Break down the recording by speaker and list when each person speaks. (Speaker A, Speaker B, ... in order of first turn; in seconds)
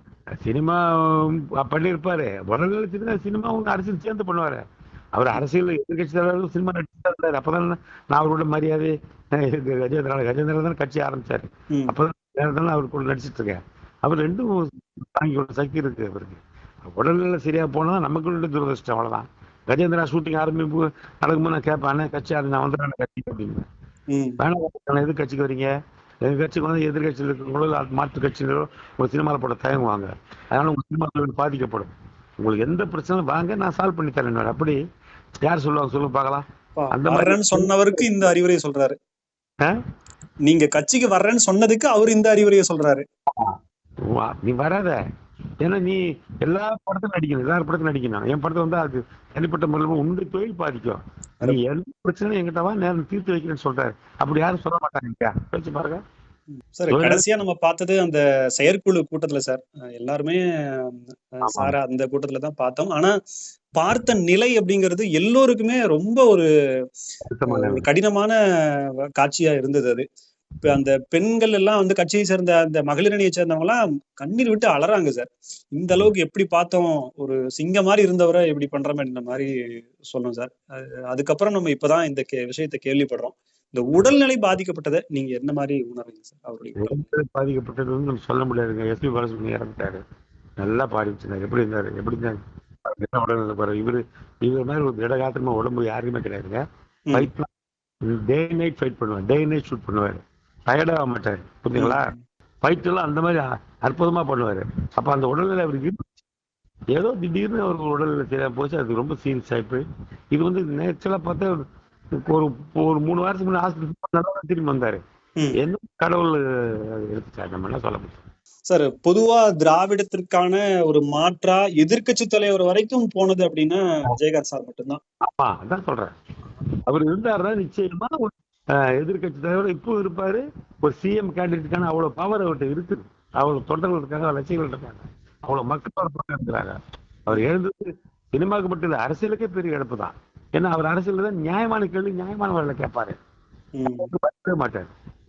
Speaker A: 0.4-4.6, 5.1-23.6, 24.4-25.7, 26.2-34.8, 35.4-38.2, 43.3-45.0, 45.6-56.0, 56.9-57.2, 61.4-61.7, 67.3-67.8, 86.8-90.0, 90.6-96.6, 97.1-97.5, 98.0-102.1, 102.6-106.1, 106.9-111.5, 112.2-115.0, 115.6-118.2, 125.2-126.1, 126.8-136.7, 137.3-137.8, 138.3-143.2, 143.9-144.9
Speaker B: 11.7-12.0, 24.1-24.4, 36.8-39.0, 40.5-43.0, 56.7-63.1, 63.8-66.5, 67.5-70.0, 70.6-79.5, 80.1-87.1, 101.8-102.2, 118.7-125.0, 143.8-144.1